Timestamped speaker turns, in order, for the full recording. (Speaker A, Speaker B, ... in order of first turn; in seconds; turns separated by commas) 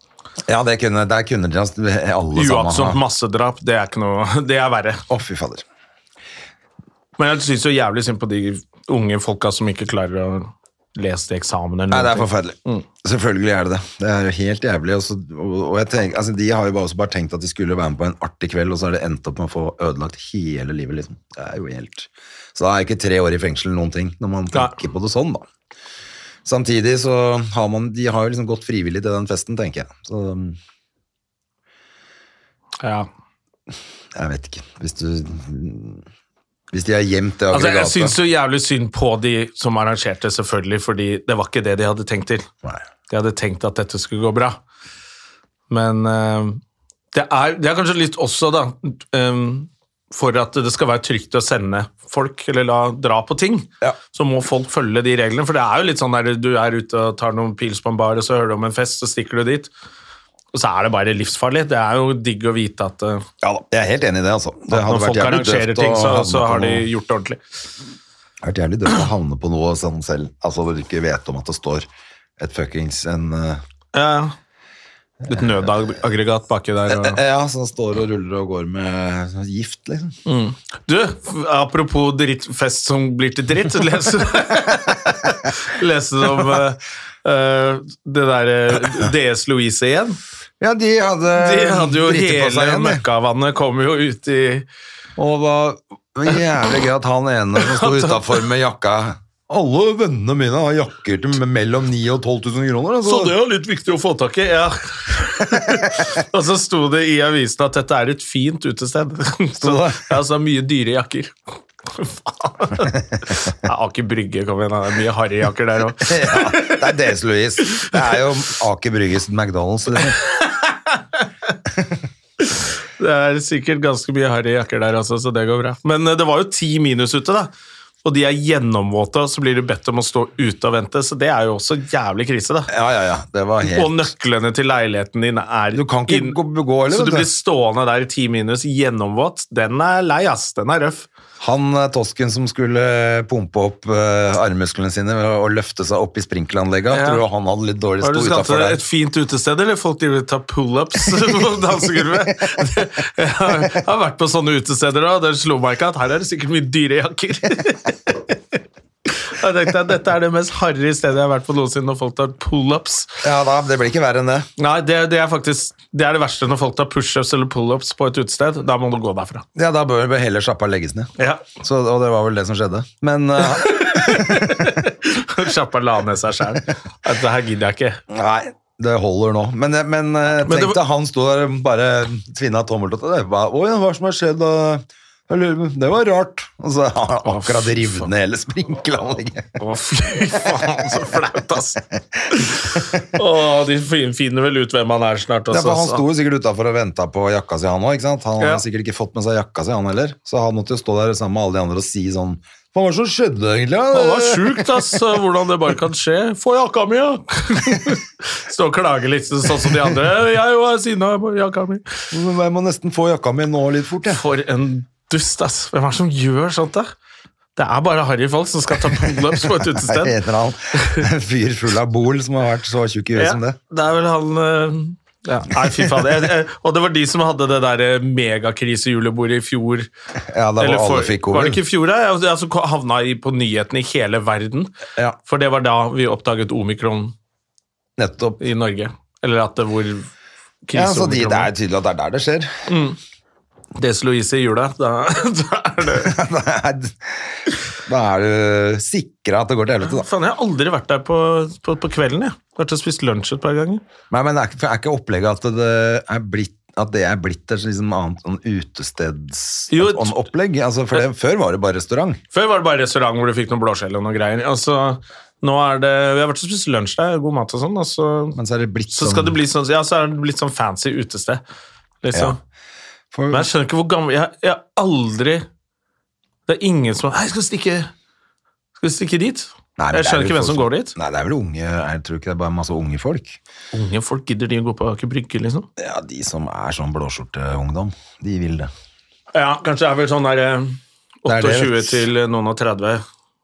Speaker A: 0.5-3.0, Speaker B: 2.4-5.0, Speaker A: 5.1-5.6, Speaker B: 7.2-12.8, Speaker A: 11.9-25.4, Speaker A: 26.4-30.6, Speaker B: 32.8-33.1, Speaker A: 34.1-36.0, Speaker A: 36.7-38.2, Speaker B: 37.5-42.5, Speaker B: 43.1-44.6, Speaker B: 45.7-46.6, Speaker B: 47.1-59.7, Speaker B: 60.5-63.3, Speaker A: 63.4-66.9, Speaker B: 64.7-67.4, Speaker A: 68.4-71.9, Speaker A: 72.4-73.6, Speaker B: 73.9-74.3, Speaker B: 75.3-77.2, Speaker A: 75.3-75.6, Speaker A: 76.9-80.2, Speaker B: 80.3-90.2, Speaker A: 90.6-93.0, Speaker B: 91.4-94.7, Speaker A: 95.2-103.4, Speaker B: 97.6-98.3, Speaker B: 103.0-111.3, Speaker A: 105.5-105.8, Speaker A: 109.6-110.2, Speaker B: 111.9-116.9, Speaker A: 116.0-120.2, Speaker B: 120.1-121.3, Speaker B: 122.4-127.5, Speaker B: 128.0-132.7, Speaker A: 132.7-134.1, Speaker B: 133.6-136.4, Speaker A: 135.7-137.3, Speaker B: 136.9-141.1, Speaker A: 141.4-148.8, Speaker B: 146.9-147.2, Speaker B: 148.0-163.2, Speaker A: 163.2-164.5, Speaker B: 164.6-169.4, Speaker A: 169.6-174.9, Speaker B: 171.2-171.5, Speaker B: 173.5-178.0, Speaker A: 178.1-189.6, Speaker B: 180.4-180.8, Speaker B: 187.4-188.0, Speaker B: 189.6-191.8, Speaker A: 190.4-190.9, Speaker A: 191.9-193.0, Speaker B: 192.3-196.0, Speaker A: 195.5-205.0, Speaker B: 203.9-211.9, Speaker A: 212.1-214.2, Speaker B: 214.1-216.9, Speaker B: 217.6-220.2, Speaker A: 219.6-223.6, Speaker B: 223.2-229.9, Speaker A: 225.6-226.0, Speaker A: 230.3-231.6, Speaker B: 230.6-234.7, Speaker B: 235.2-237.1, Speaker A: 238.0-238.4, Speaker B: 238.4-240.1, Speaker B: 240.7-241.5, Speaker A: 240.7-242.7, Speaker B: 242.7-243.0, Speaker B: 243.8-246.2, Speaker A: 246.0-250.1, Speaker B: 249.8-253.8, Speaker A: 254.1-262.2, Speaker B: 259.7-260.1, Speaker B: 262.3-268.4, Speaker A: 268.4-269.4, Speaker B: 268.9-271.4, Speaker B: 272.0-272.4, Speaker A: 273.1-273.5, Speaker B: 273.3-275.5, Speaker B: 276.5-277.9, Speaker B: 278.8-281.0, Speaker A: 279.8-283.4, Speaker B: 283.7-285.7, Speaker A: 285.8-288.7, Speaker B: 289.3-293.0, Speaker A: 291.3-292.1